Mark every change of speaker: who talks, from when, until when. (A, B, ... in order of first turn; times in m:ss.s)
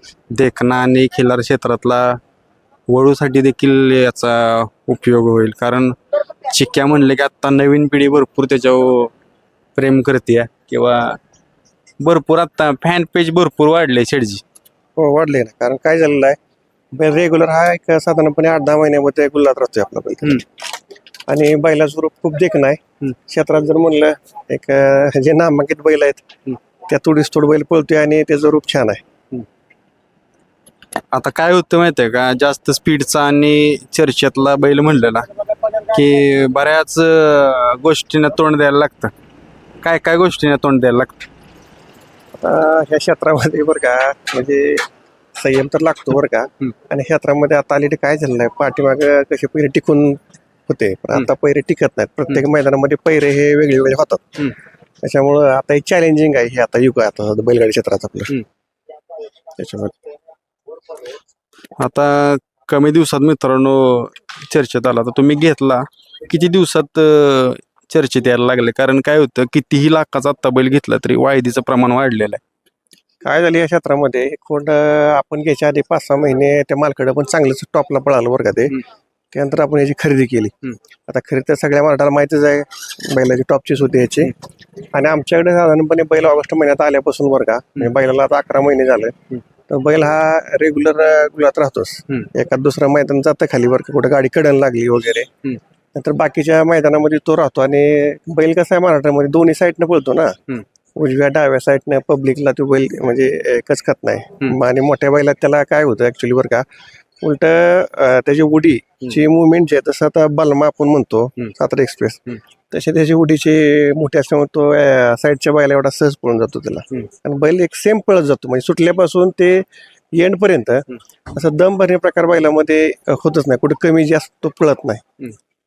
0:00.3-0:02.2 A
0:02.9-0:06.0 A
0:06.5-0:09.1 A
0:09.8-0:11.2 A
0:12.0-0:14.4 A
0:15.0-0:16.4 B
0:16.9-0:20.5 B
0:21.3-0:26.3 B
0:26.9-0:29.0 B
0:31.1-0:39.1 A
0:39.8-0:41.3 A
0:42.4-0:54.4 B
0:55.0-0:58.4 B
0:59.6-1:00.0 B
1:01.8-1:12.4 A
1:13.2-1:18.8 B
1:19.3-1:20.6 B
1:21.1-1:24.4 B
1:24.9-1:29.1 B
1:29.7-1:35.3 B
1:36.0-1:40.4 B
1:41.0-1:46.6 B
1:47.2-2:05.0 B